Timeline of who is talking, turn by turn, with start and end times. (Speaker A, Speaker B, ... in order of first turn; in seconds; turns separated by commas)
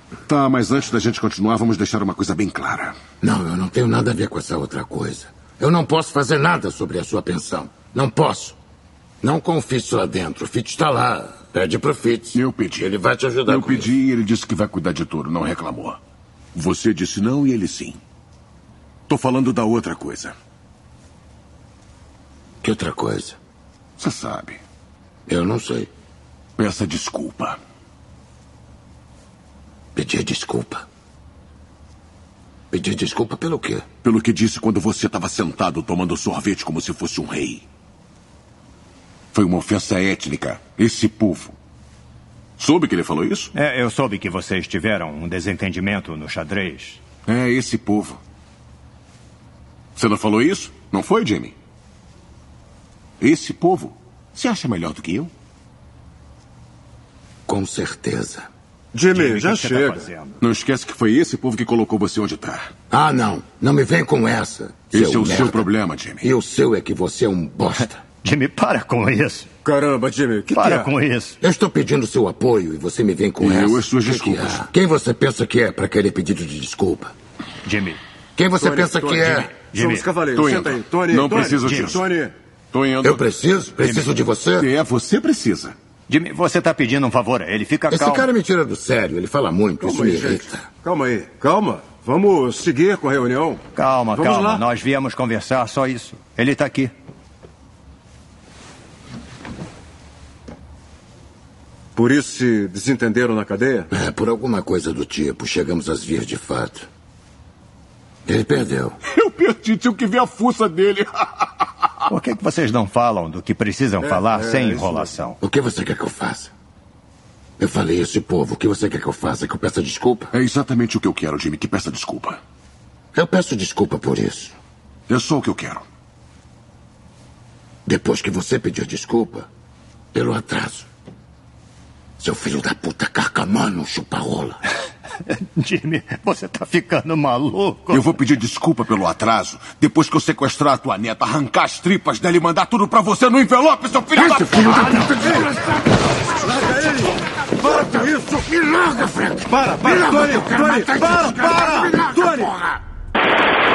Speaker A: 0.3-3.0, Speaker B: 3.2-8.6, Speaker B: 9.2-13.9, Speaker A: 12.3-12.9, Speaker A: 13.4-16.0, Speaker A: 16.5-18.0, Speaker A: 19.1-20.4, Speaker B: 22.6-23.4, Speaker A: 24.0-24.6, Speaker B: 25.3-25.9, Speaker A: 26.6-27.6, Speaker B: 29.9-30.8, Speaker B: 32.7-33.9, Speaker A: 34.0-37.6, Speaker A: 39.3-41.5, Speaker A: 42.6-43.5, Speaker C: 43.5-47.0, Speaker A: 47.2-48.2, Speaker A: 50.0-51.5, Speaker A: 53.2-55.3, Speaker B: 57.5-58.5, Speaker D: 58.9-60.1, Speaker C: 59.1-60.4, Speaker A: 60.4-62.7, Speaker B: 62.9-65.6, Speaker A: 64.9-66.3, Speaker B: 66.2-68.0, Speaker C: 67.7-69.5, Speaker D: 69.6-70.9, Speaker C: 70.5-71.4, Speaker B: 71.4-77.1, Speaker A: 73.4-74.7, Speaker C: 77.6-78.0, Speaker B: 78.3-79.5, Speaker D: 78.5-82.3, Speaker C: 79.6-80.1, Speaker A: 80.3-82.0, Speaker C: 81.5-82.0, Speaker A: 82.7-83.2, Speaker B: 83.0-84.7, Speaker A: 84.6-85.7, Speaker C: 86.1-88.3, Speaker B: 87.9-90.7, Speaker D: 89.8-93.6, Speaker C: 93.7-96.9, Speaker D: 94.1-94.6, Speaker D: 101.9-103.9, Speaker B: 103.9-106.8, Speaker B: 108.2-109.0, Speaker A: 109.1-111.7, Speaker C: 112.1-115.4, Speaker D: 114.0-115.1, Speaker B: 115.4-116.5, Speaker B: 117.6-120.3, Speaker A: 120.3-122.4, Speaker B: 123.1-124.5, Speaker A: 125.1-125.8, Speaker B: 127.8-129.5, Speaker B: 130.1-130.9, Speaker B: 132.2-134.6, Speaker C: 135.1-138.1, Speaker A: 137.9-145.0, Speaker B: 144.2-145.4, Speaker C: 144.4-145.7, Speaker D: 145.1-145.4, Speaker D: 146.4-148.4, Speaker B: 147.7-152.6, Speaker D: 149.5-152.5